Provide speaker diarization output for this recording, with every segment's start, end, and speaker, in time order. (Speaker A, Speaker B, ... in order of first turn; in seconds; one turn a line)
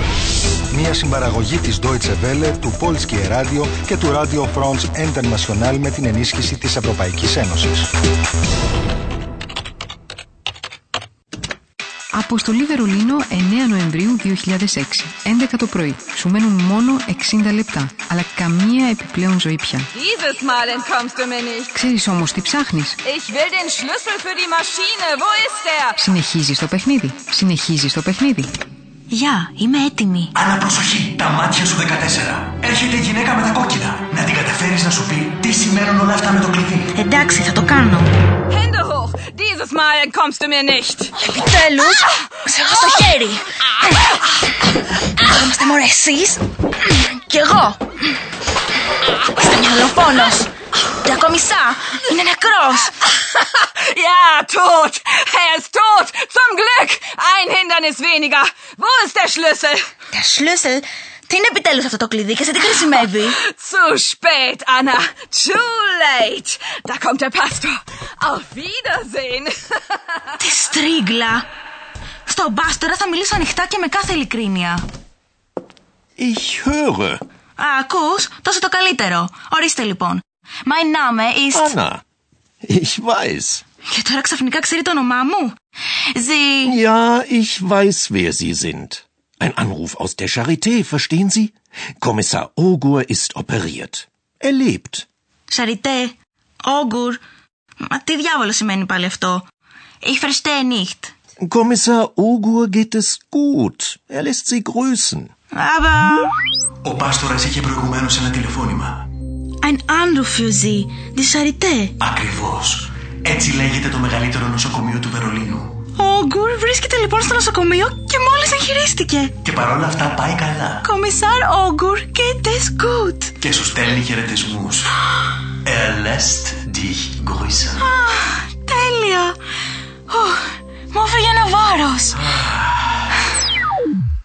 Speaker A: 0.7-7.9
Speaker B: 12.1-19.9
Speaker C: 19.9-21.7
Speaker B: 21.8-23.0
Speaker C: 23.1-26.0
Speaker B: 26.0-28.5
Speaker D: 29.1-30.3
Speaker E: 30.3-36.9
Speaker D: 37.0-38.1
Speaker C: 38.5-41.1
Speaker D: 41.2-43.5
Speaker D: 45.1-48.0
Speaker D: 49.2-53.0
Speaker C: 53.1-59.8
Speaker D: 60.1-63.4
Speaker C: 63.4-70.0
Speaker D: 70.4-71.5
Speaker D: 72.2-74.8
Speaker F: 76.2-77.2
Speaker D: 77.6-81.8
Speaker F: 81.5-82.0
Speaker F: 82.6-83.6
Speaker D: 83.8-85.5
Speaker D: 86.1-86.8
Speaker F: 86.6-95.0
Speaker D: 95.5-97.2
Speaker D: 97.8-99.5
Speaker D: 100.0-101.1
Speaker F: 101.4-105.3
Speaker D: 105.5-106.3
Speaker E: 106.8-109.1
Speaker D: 109.6-111.9
Speaker E: 112.0-115.8
Speaker D: 115.9-119.3
Speaker E: 119.4-120.8
Speaker D: 120.8-123.3
Speaker E: 123.4-124.9
Speaker E: 125.6-127.8
Speaker D: 127.8-129.4
Speaker D: 130.1-132.3
Speaker E: 132.5-132.9